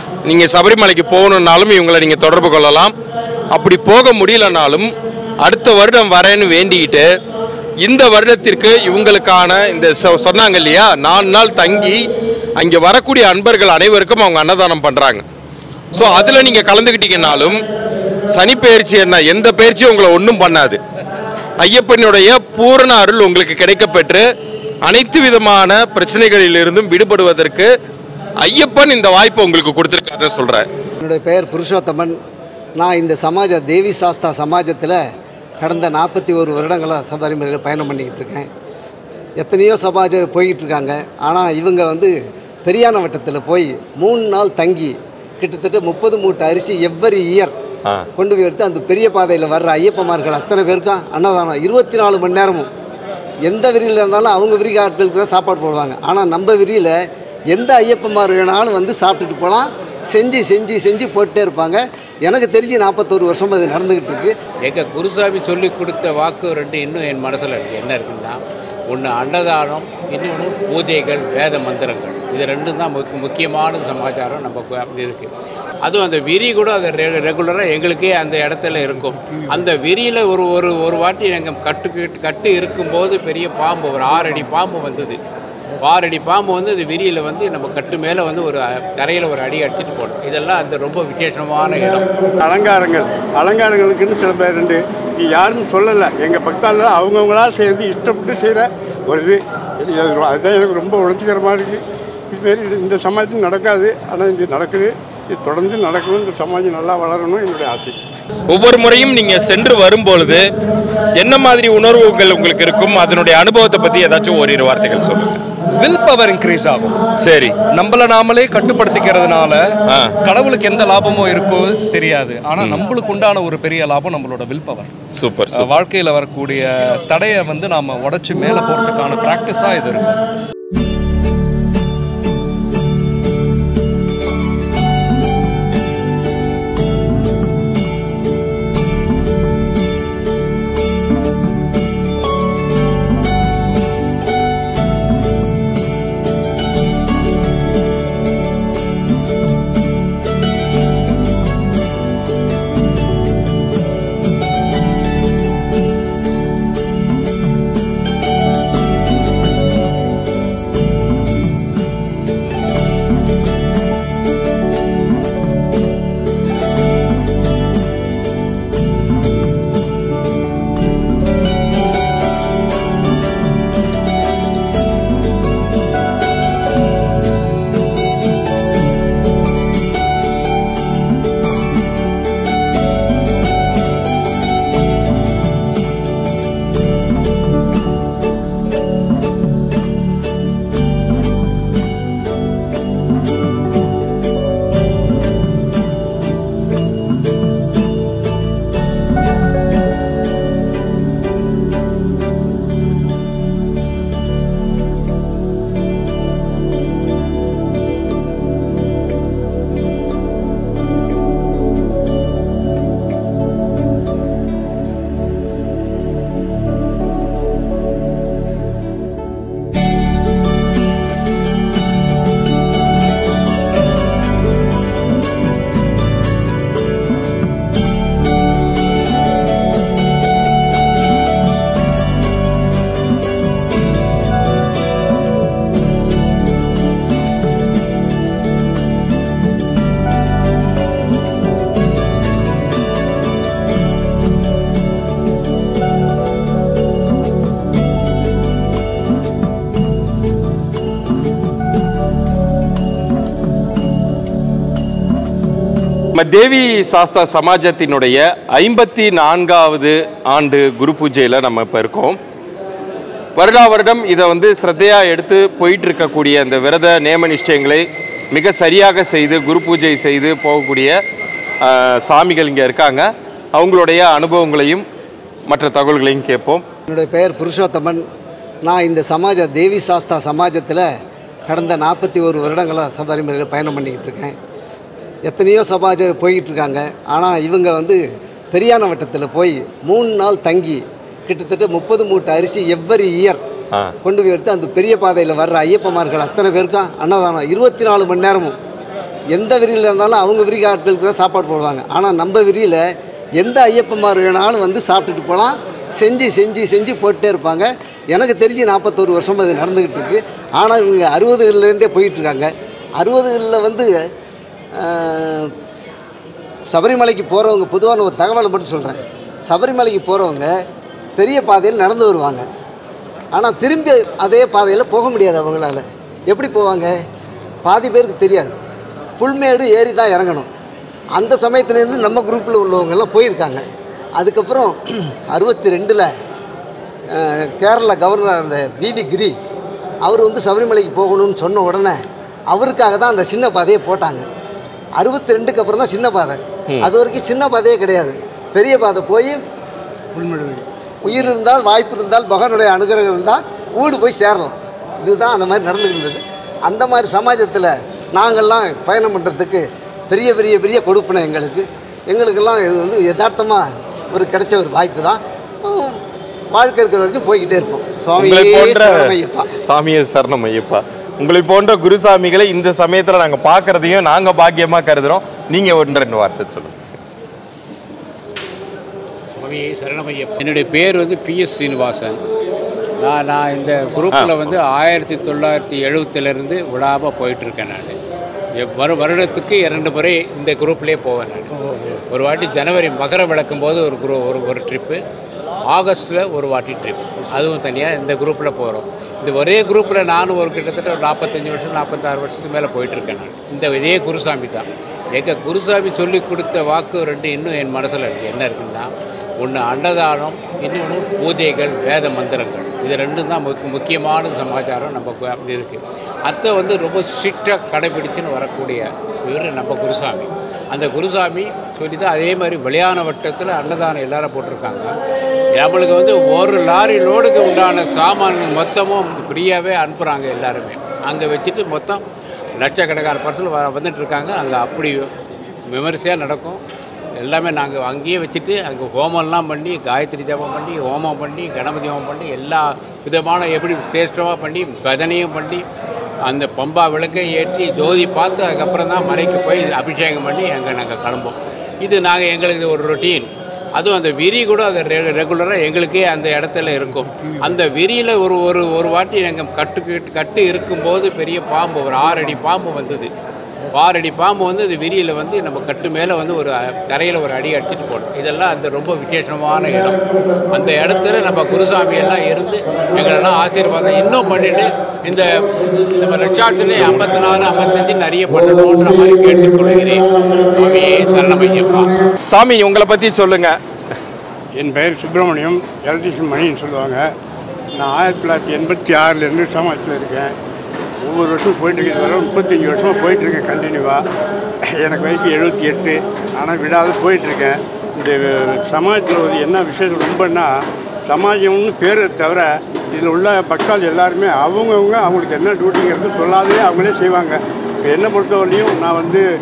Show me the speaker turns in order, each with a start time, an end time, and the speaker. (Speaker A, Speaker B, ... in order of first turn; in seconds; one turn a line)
Speaker A: 0.2-2.9
Speaker A: 3.5-7.1
Speaker A: 7.8-12.0
Speaker A: 12.6-15.2
Speaker A: 15.9-17.6
Speaker A: 18.3-20.8
Speaker A: 21.6-24.2
Speaker A: 24.9-27.7
Speaker A: 28.4-30.6
Speaker B: 31.0-32.1
Speaker B: 32.8-35.0
Speaker B: 35.6-38.5
Speaker B: 39.4-47.5
Speaker B: 48.2-52.7
Speaker B: 53.5-57.0
Speaker B: 57.5-64.3
Speaker C: 64.6-68.4
Speaker C: 68.9-75.3
Speaker C: 75.8-85.2
Speaker C: 85.8-92.1
Speaker D: 92.4-108.0
Speaker A: 108.5-110.5
Speaker A: 111.2-115.4
Speaker E: 115.8-117.0
Speaker A: 117.2-117.5
Speaker E: 117.7-119.6
Speaker E: 120.2-124.9
Speaker A: 125.2-125.7
Speaker E: 125.5-130.2
Speaker A: 256.1-262.2
Speaker A: 263.4-271.0
Speaker A: 271.6-274.8
Speaker A: 275.5-276.6
Speaker B: 276.9-278.0
Speaker B: 278.6-280.9
Speaker B: 281.5-284.4
Speaker B: 285.3-288.0
Speaker B: 288.5-293.4
Speaker B: 294.0-298.6
Speaker B: 299.3-302.8
Speaker B: 303.4-314.1
Speaker B: 314.8-315.5
Speaker B: 316.7-320.5
Speaker B: 321.2-322.4
Speaker B: 323.3-326.9
Speaker B: 327.6-328.6
Speaker B: 329.2-330.5
Speaker B: 331.2-333.6
Speaker B: 334.2-336.1
Speaker B: 337.1-339.3
Speaker B: 340.0-342.0
Speaker B: 342.5-344.2
Speaker B: 345.0-349.4
Speaker D: 350.1-350.6
Speaker B: 351.0-366.0
Speaker B: 366.5-369.5
Speaker A: 368.2-376.8
Speaker C: 379.4-382.2
Speaker C: 383.0-388.0
Speaker A: 384.1-384.5
Speaker C: 388.6-395.0
Speaker C: 395.7-424.9
Speaker C: 425.6-432.0
Speaker C: 432.6-435.1
Speaker C: 435.7-436.6
Speaker C: 437.2-445.6
Speaker C: 446.3-463.1
Speaker C: 463.7-481.9
Speaker A: 482.3-483.6
Speaker D: 484.6-487.0
Speaker D: 487.8-490.3
Speaker D: 491.0-494.0
Speaker D: 494.8-500.5
Speaker D: 501.1-509.2